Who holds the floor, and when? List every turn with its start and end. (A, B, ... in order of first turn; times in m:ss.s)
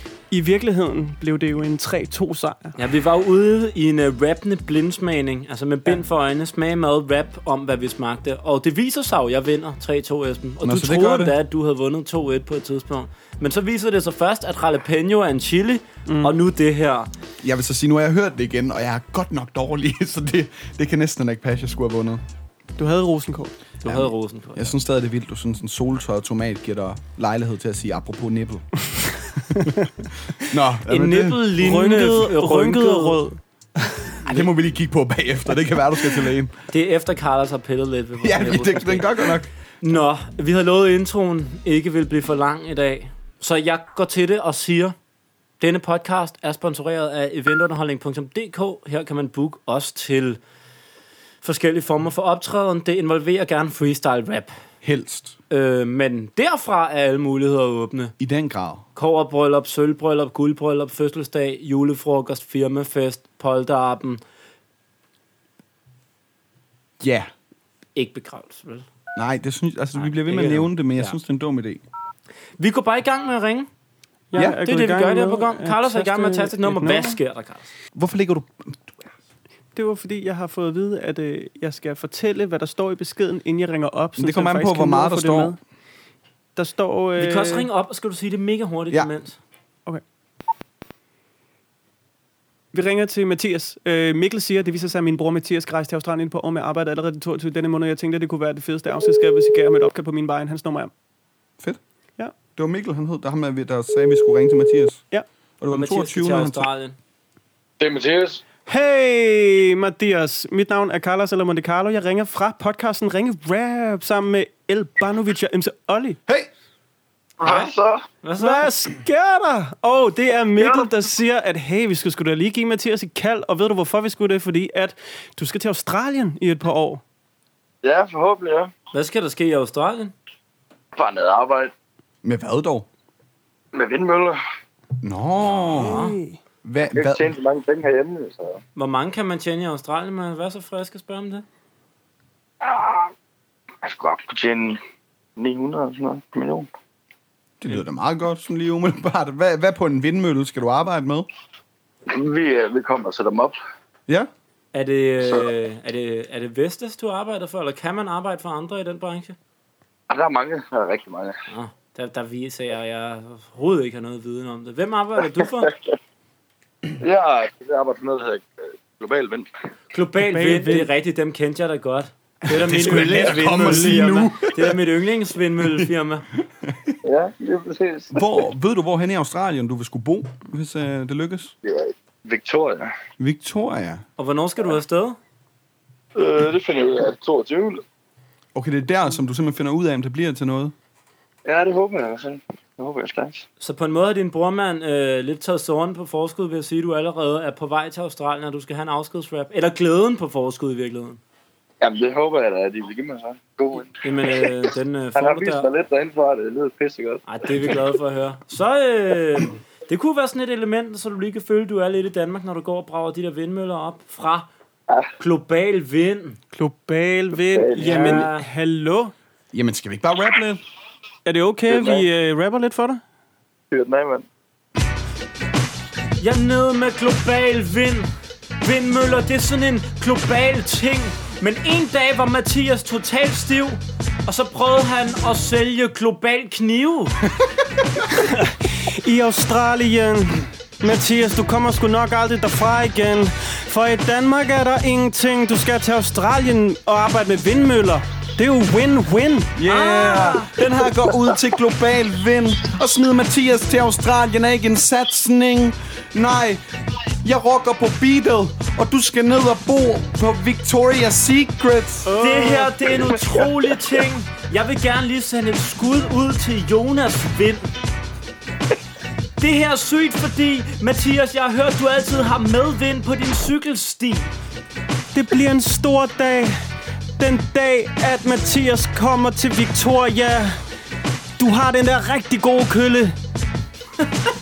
0:00.3-0:02.7 A
0:02.8-0:17.1 B
0:10.6-0:11.3 C
0:16.1-0:16.3 A
0:17.4-0:22.2 C
0:22.8-0:23.6 A
0:23.8-0:24.7 B
0:23.8-0:29.7 C
0:30.4-0:31.5 C
0:30.9-0:33.2 B
0:31.6-0:34.1 A
0:34.2-0:36.5 C
0:36.7-0:44.9 B
0:38.2-0:39.5 C
0:45.6-0:50.4 B
0:51.4-0:54.6 B
0:54.8-0:55.4 C
0:55.5-0:58.1 B
0:58.2-0:58.8 C
0:59.0-1:04.2 B
1:07.0-1:07.3 C
1:07.9-1:08.8 B
1:09.2-1:11.8 C
1:10.0-1:11.2 B
1:12.6-1:13.7 B
1:14.3-1:17.2 A
1:14.3-1:14.6 C
1:14.6-1:17.7 B
1:17.9-1:19.1 C
1:19.7-1:25.6 A
1:24.2-1:25.6 C
1:26.6-1:27.7 A
1:27.2-1:29.4 B
1:32.7-1:40.9 A
1:42.6-1:45.0 C
1:45.6-1:46.7 C
1:45.7-1:47.0 B
1:47.8-1:48.4 D
1:48.7-1:56.2 A
1:57.4-1:58.0 D
1:57.4-1:58.7 B
1:58.4-2:07.0 A
2:00.6-2:00.9 D
2:07.8-2:08.7 D
2:08.9-2:10.1 B
2:10.9-2:11.7 D
2:12.2-2:12.9 C
2:13.7-2:14.4 D
2:15.0-2:16.0 C
2:15.4-2:16.2 B
2:15.8-2:16.4 A
2:16.6-2:17.3 C
2:16.9-2:18.6 D
2:18.7-2:21.4 B
2:22.6-2:23.1 D
2:23.8-2:24.8 D
2:25.4-2:26.7 D
2:27.6-2:31.3 C
2:32.1-2:33.6 D
2:34.7-2:39.4 B
2:40.1-2:41.4 D
2:41.5-2:45.7 B
2:47.0-2:49.5 D
2:49.9-2:56.2 B
2:50.3-2:50.9 A
2:52.4-2:54.8 C
2:56.6-2:56.9 C
2:57.0-2:58.2 D
2:58.1-3:01.5 C
3:01.6-3:02.9 D
3:03.2-3:04.0 C
3:04.2-3:05.2 B
3:06.2-3:07.8 D
3:08.5-3:10.7 C
3:11.4-3:13.4 D
3:13.6-3:21.2 B
3:21.8-3:24.6 D
3:24.0-3:25.7 B
3:25.1-3:27.2 D
3:27.2-3:34.5 B
3:35.2-3:36.4 B
3:36.5-3:39.1 A
3:37.4-3:38.2 D
3:37.8-3:38.4 B
3:39.5-3:40.6 C
3:41.2-3:43.0 A
3:41.7-3:42.0 D
3:43.7-3:44.2 D
3:46.2-3:48.1 B
3:48.6-3:57.2 B
3:58.1-4:09.5 A
4:09.6-4:16.6 C
4:09.7-4:10.5 B
4:17.2-4:22.1 C
4:22.0-4:22.9 A
4:22.2-4:27.7 B
4:29.4-4:34.3 B
4:35.1-4:36.5 A
4:37.2-4:40.6 A
4:41.4-4:43.2 A